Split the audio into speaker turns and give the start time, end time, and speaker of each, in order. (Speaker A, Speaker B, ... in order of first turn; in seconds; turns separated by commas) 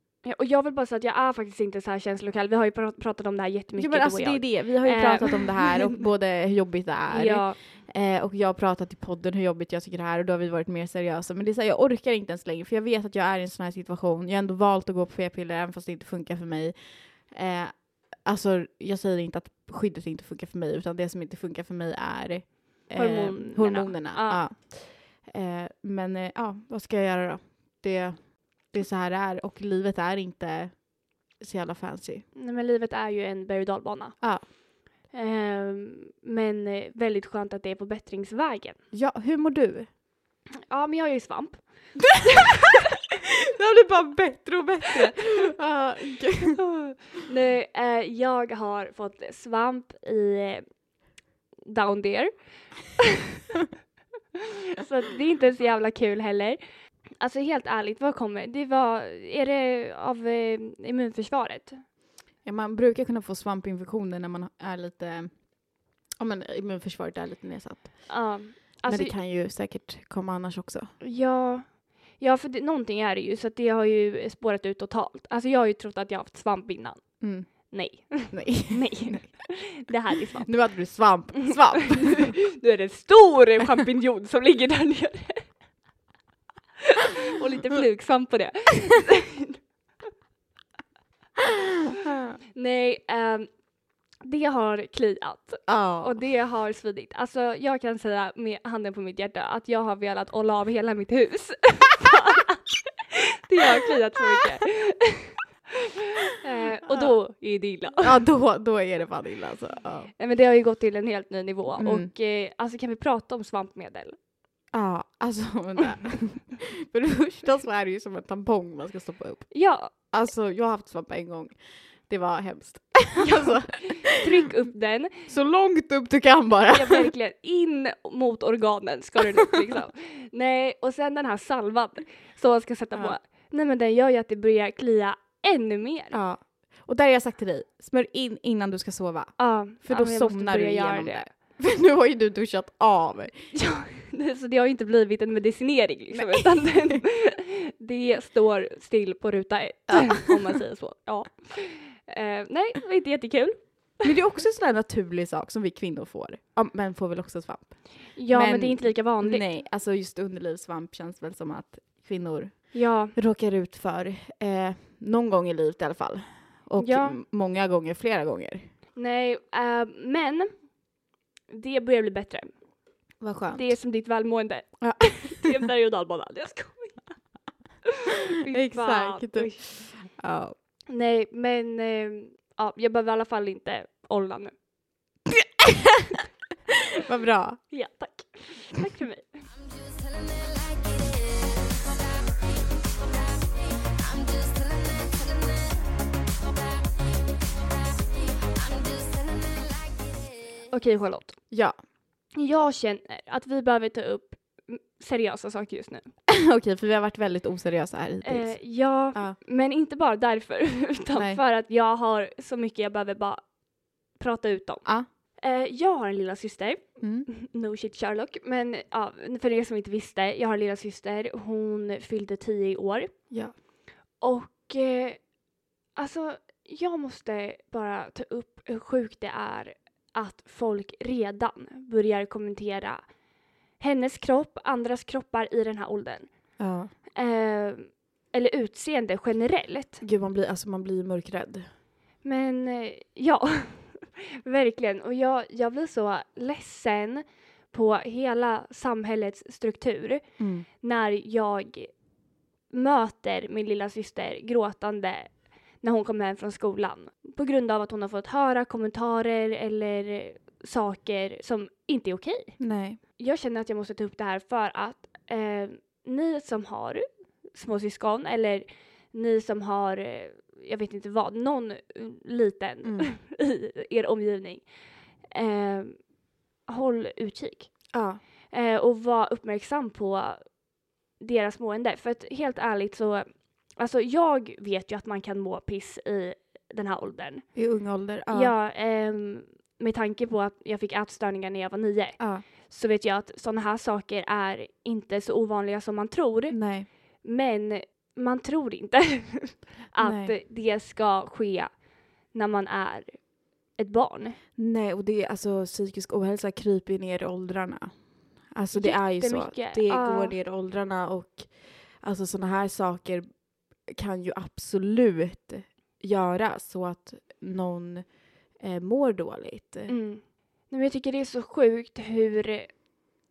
Speaker A: 0.2-6.0, Speaker B: 3.8-30.8, Speaker A: 7.1-7.6, Speaker A: 22.9-24.4, Speaker B: 31.4-32.2, Speaker A: 32.3-34.5, Speaker B: 34.2-34.5, Speaker A: 35.1-38.8, Speaker B: 38.9-39.9, Speaker A: 40.7-41.7, Speaker A: 42.4-42.7, Speaker B: 43.5-46.6, Speaker A: 46.7-50.6, Speaker A: 51.6-52.3, Speaker A: 54.7-56.6, Speaker A: 57.2-61.8, Speaker B: 62.4-65.5, Speaker B: 66.2-70.9, Speaker A: 68.1-69.1, Speaker A: 71.0-80.5, Speaker B: 77.2-79.2, Speaker B: 80.4-82.4, Speaker A: 81.9-85.5, Speaker A: 86.8-89.6, Speaker B: 91.8-92.3, Speaker A: 92.5-93.5, Speaker A: 94.2-105.3, Speaker B: 95.7-96.2, Speaker A: 106.3-108.2, Speaker B: 108.0-110.1, Speaker A: 110.2-114.2, Speaker B: 111.8-112.1, Speaker B: 114.7-124.2, Speaker A: 119.5-119.9, Speaker A: 123.2-125.3, Speaker B: 125.3-127.1, Speaker A: 126.7-136.2, Speaker B: 136.1-143.5, Speaker A: 139.4-141.3, Speaker A: 143.5-153.9, Speaker B: 146.1-147.0, Speaker B: 149.9-150.2, Speaker B: 154.0-168.7, Speaker A: 158.1-159.4, Speaker A: 162.7-163.1, Speaker A: 166.8-167.2, Speaker A: 168.9-170.7, Speaker A: 171.5-172.5, Speaker B: 173.2-173.8, Speaker A: 173.5-177.2, Speaker B: 174.8-175.5, Speaker A: 178.0-179.7, Speaker B: 178.5-180.5, Speaker A: 180.9-184.5, Speaker B: 185.6-185.9, Speaker B: 187.0-187.6, Speaker A: 187.7-189.4, Speaker C: 189.6-192.1, Speaker C: 192.9-195.9, Speaker C: 197.8-200.6, Speaker A: 200.7-201.4, Speaker A: 202.3-206.1, Speaker B: 206.3-209.4, Speaker A: 208.2-213.5, Speaker A: 214.1-214.8, Speaker A: 215.4-223.3, Speaker B: 217.0-217.3, Speaker A: 224.2-225.2, Speaker A: 225.9-233.0, Speaker A: 233.8-236.3, Speaker B: 236.6-236.9, Speaker A: 237.1-240.0, Speaker B: 240.0-241.7, Speaker A: 242.2-250.2, Speaker B: 250.4-250.7, Speaker A: 250.8-251.9, Speaker A: 252.7-274.6, Speaker B: 262.6-263.0, Speaker B: 272.8-273.1, Speaker A: 275.3-276.1, Speaker A: 276.7-277.8, Speaker B: 277.9-278.2, Speaker A: 278.5-280.5, Speaker A: 281.2-287.4, Speaker B: 287.5-288.5, Speaker A: 288.3-296.6, Speaker B: 292.2-292.4, Speaker B: 296.5-296.9, Speaker A: 297.2-301.7, Speaker B: 300.0-300.3, Speaker A: 302.3-304.4, Speaker B: 304.6-313.3, Speaker A: 308.7-310.3, Speaker B: 313.8-319.9, Speaker A: 319.9-322.8